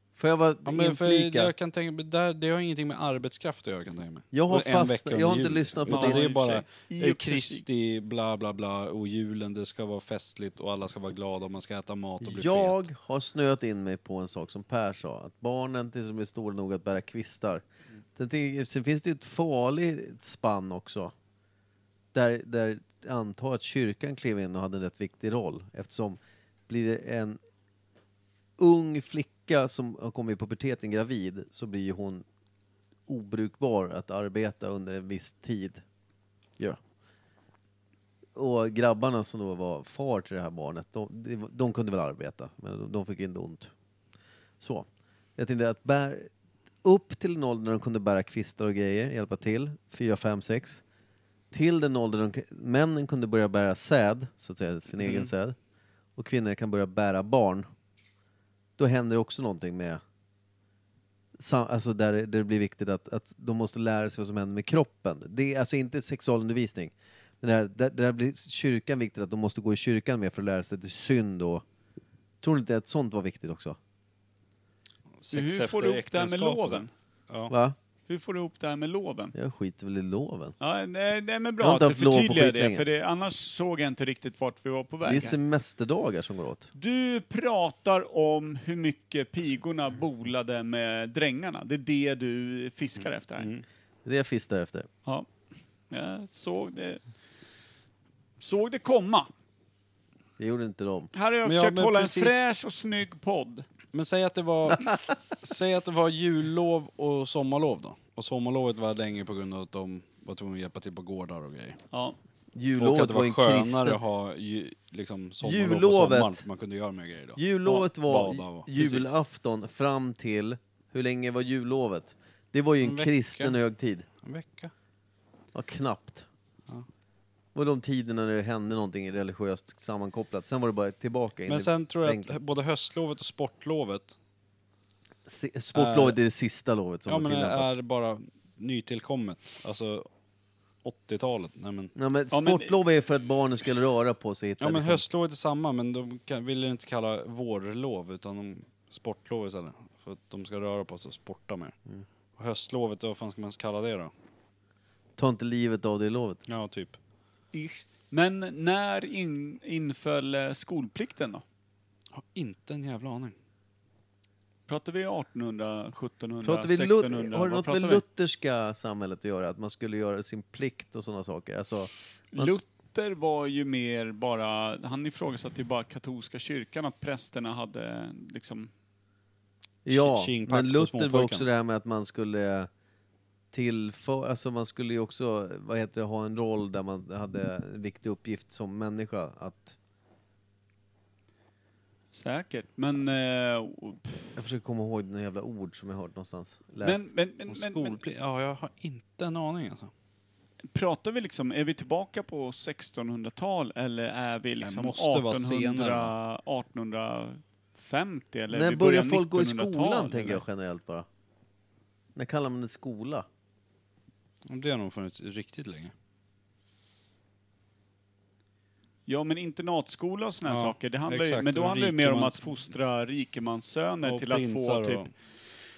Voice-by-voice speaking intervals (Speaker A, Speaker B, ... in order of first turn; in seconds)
Speaker A: 0.2-1.5, 4.3-6.3, 12.2-17.6, 18.1-21.1, 22.1-27.4, 28.6-32.2, 33.1-35.8, 38.4-43.7, 44.6-44.9, 45.4-46.3, 46.8-50.8, 51.5-55.5, 56.1-57.7, 58.8-60.0, 61.4-71.6, 72.4-73.8, 77.5-77.8, 79.3-80.5, 81.6-82.8, 85.0-86.7, 94.0-94.9, 100.4-101.1, 112.5-114.0, 115.4-116.4, 117.3-124.0, 125.5-126.2, 127.5-132.3, 135.2-137.8, 141.9-145.0, 155.2-156.4, 166.4-172.5, 179.8-182.7, 183.5-189.8, 194.3-197.1, 208.5-211.1, 212.1-213.2
Speaker B: 0.6-12.8, 55.0-55.3, 75.2-77.5, 93.4-93.6, 101.4-102.4, 103.9-104.9, 105.4-111.8, 112.8-119.1, 122.8-123.6, 124.2-124.7, 131.5-134.2, 135.7-136.2, 137.1-140.1, 140.8-141.9, 144.6-151.8, 152.3-154.1, 156.5-157.0, 162.1-163.3, 179.9-181.4, 197.5-199.9, 204.6-206.1, 214.4-215.9, 220.4-222.4, 224.0-225.1
Speaker C: 5.9-7.6, 75.3-76.9, 78.1-79.3, 80.6-85.3, 86.7-93.5, 95.9-97.0, 98.4-99.3, 101.1-103.7, 111.9-112.2, 142.3-142.7, 157.5-161.4, 164.7-168.0, 172.3-178.7, 192.1-194.3, 196.8-198.0, 200.7-210.4, 219.1-225.1